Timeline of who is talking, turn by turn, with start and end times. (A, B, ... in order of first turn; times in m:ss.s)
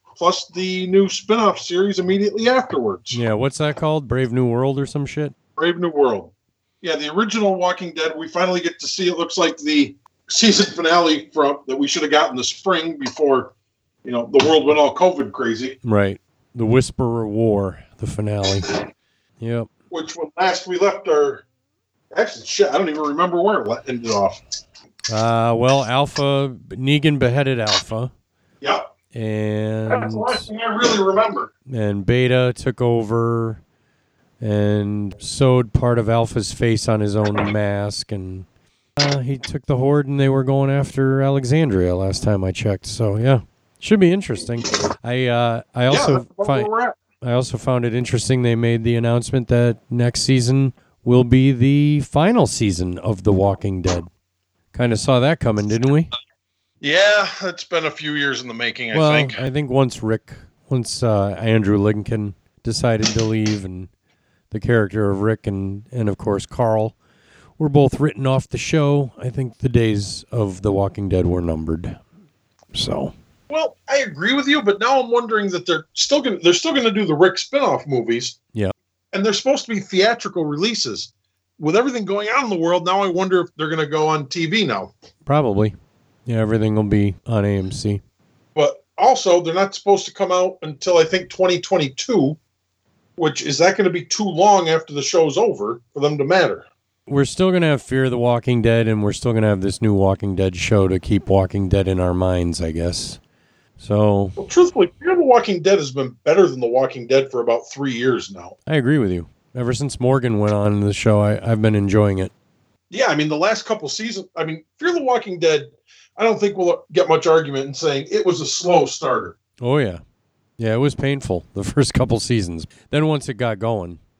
0:00.2-0:03.2 A
0:03.1-0:05.3 B
0:05.6-0:13.5 A
0:14.0-0:15.8 A
0:15.8-0:18.7 B
0:19.4-0:19.7 B
0:19.9-0:21.4 A
0:22.1-0:24.4 A
0:25.1-0:28.1 B
0:28.6-0:28.9 A
0:29.1-0:30.5 B
0:29.9-0:31.5 A
0:31.7-0:33.6 B
0:34.4-0:38.4 B
0:39.0-0:46.7 B
0:45.9-0:47.0 A
0:47.2-0:54.1 B
0:54.7-0:56.1 B
0:56.8-0:59.4 A
0:58.9-1:03.9 B
1:04.5-1:07.0 B
1:07.6-1:12.0 B
1:12.7-1:13.1 B
1:13.5-1:18.4 A
1:19.1-1:24.9 A
1:25.2-1:28.0 B
1:28.5-1:32.4 A
1:33.2-1:36.7 A
1:37.1-1:43.2 B
1:43.8-1:44.4 B
1:44.4-1:48.6 A
1:48.7-1:52.3 B
1:52.9-1:59.4 A
1:59.6-2:00.0 B
2:00.6-2:04.0 B